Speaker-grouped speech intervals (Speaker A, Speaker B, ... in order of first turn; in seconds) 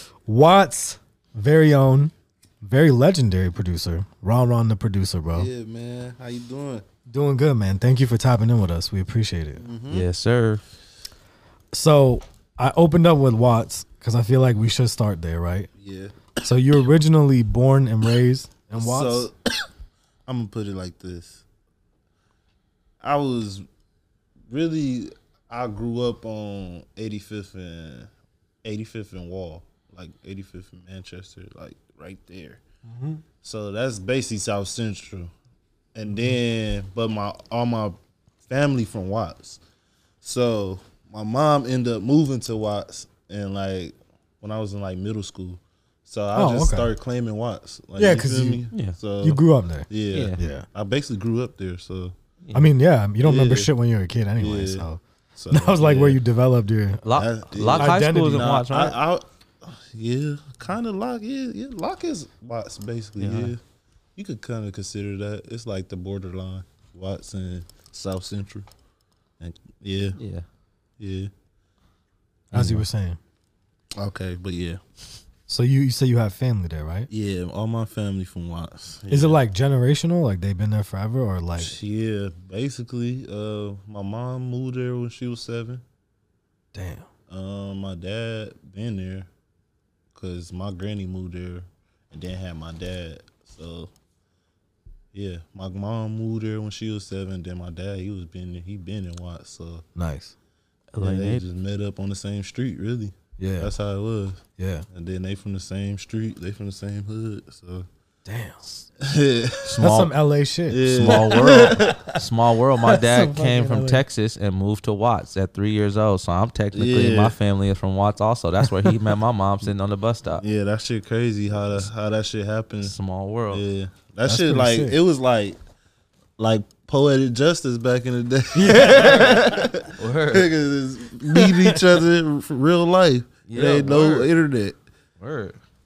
Speaker A: 0.2-5.5, 7.1-9.7, 11.7-15.7, 16.4-19.3, 32.9-33.2, 46.3-46.9, 48.0-48.6, 49.2-50.7, 52.5-57.1, 57.7-58.4, 72.5-73.2, 75.5-77.1, 79.1-81.8, 86.7-87.1, 100.0-100.3, 103.4-103.7, 104.6-104.8, 108.2-108.6, 109.8-111.9, 112.8-114.0, 124.2-125.0, 128.5-129.4
Speaker B: 5.3-6.8, 9.6-10.1, 15.8-16.3, 18.7-19.3, 20.3-21.4, 23.0-23.6, 24.5-28.1, 28.6-32.6, 33.4-35.3, 36.0-38.0, 38.5-39.6, 40.2-52.1, 53.2-53.7, 54.4-56.2, 57.1-63.6, 64.2-68.7, 69.4-70.2, 71.0-71.3, 74.0-74.8, 77.1-79.4, 81.6-85.8, 87.3-89.3, 90.2-93.9, 95.1-99.8, 101.0-104.4, 104.9-107.9, 109.0-109.8, 110.7-112.1, 116.7-117.3, 120.4-122.9, 123.5-125.6, 126.4-134.8
Speaker C: 9.9-10.6, 48.7-49.0, 50.1-50.4, 57.0-59.0, 63.2-63.5, 70.1-70.4, 72.5-72.8, 100.9-101.4, 109.7-110.1, 110.8-120.4, 122.8-123.6, 128.8-130.5, 133.5-134.3, 135.2-135.6